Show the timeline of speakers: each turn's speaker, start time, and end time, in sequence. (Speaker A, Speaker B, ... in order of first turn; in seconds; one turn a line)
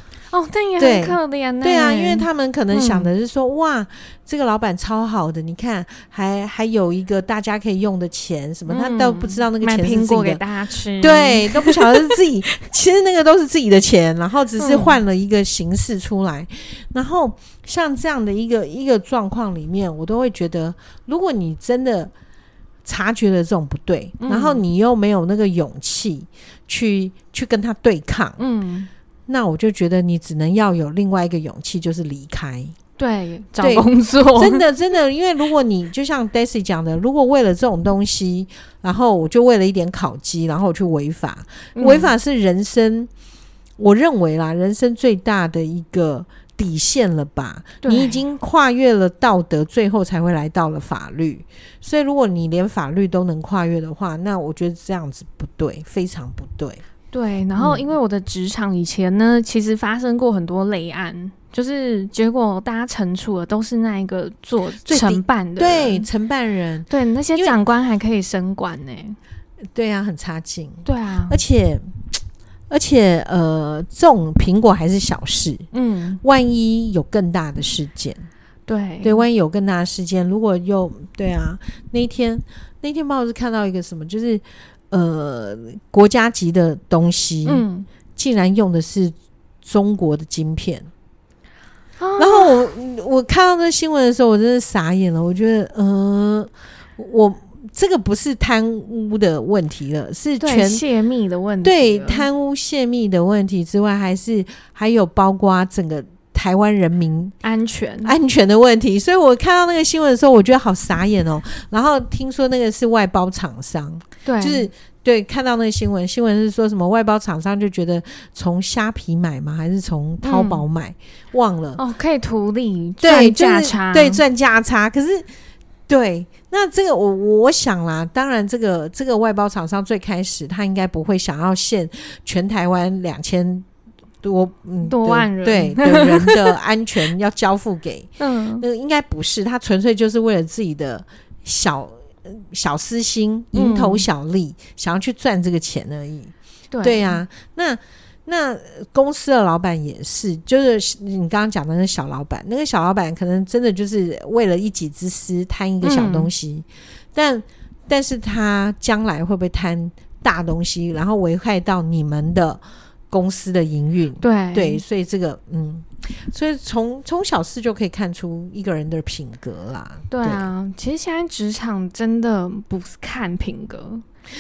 Speaker A: 0.3-3.1
Speaker B: 0.8-10.4
Speaker A: 8.7-12.2
Speaker B: 11.0-22.1
Speaker A: 14.6-15.0
Speaker B: 22.9-28.4
Speaker A: 24.2-24.6
Speaker A: 28.4-28.9
Speaker B: 29.3-32.8
Speaker A: 33.0-34.6
Speaker B: 33.6-43.1
Speaker A: 41.8-42.1
Speaker B: 43.8-56.8
Speaker A: 47.8-48.2
Speaker A: 57.1-66.1
Speaker B: 57.6-57.9
Speaker B: 64.8-67.6
Speaker A: 66.9-69.2
Speaker B: 69.7-72.1
Speaker A: 70.8-71.4
Speaker B: 72.7-75.7
Speaker A: 75.7-76.2
Speaker B: 76.2-78.3
Speaker A: 78.7-79.2
Speaker B: 79.0-87.7
Speaker A: 87.5-87.9
Speaker B: 88.2-90.9
Speaker A: 92.0-92.7
Speaker B: 92.2-100.8
Speaker A: 100.4-102.3
Speaker B: 101.6-107.3
Speaker A: 107.4-108.1
Speaker B: 108.0-121.8
Speaker A: 114.2-114.7
Speaker A: 120.2-120.6
Speaker A: 121.8-124.2
Speaker B: 123.0-125.3
Speaker B: 125.9-133.7
Speaker B: 134.2-170.5
Speaker A: 134.8-136.5
Speaker A: 138.2-138.6
Speaker A: 143.5-144.1
Speaker A: 146.7-147.2
Speaker A: 155.8-156.3
Speaker A: 164.2-164.8
Speaker A: 170.1-174.0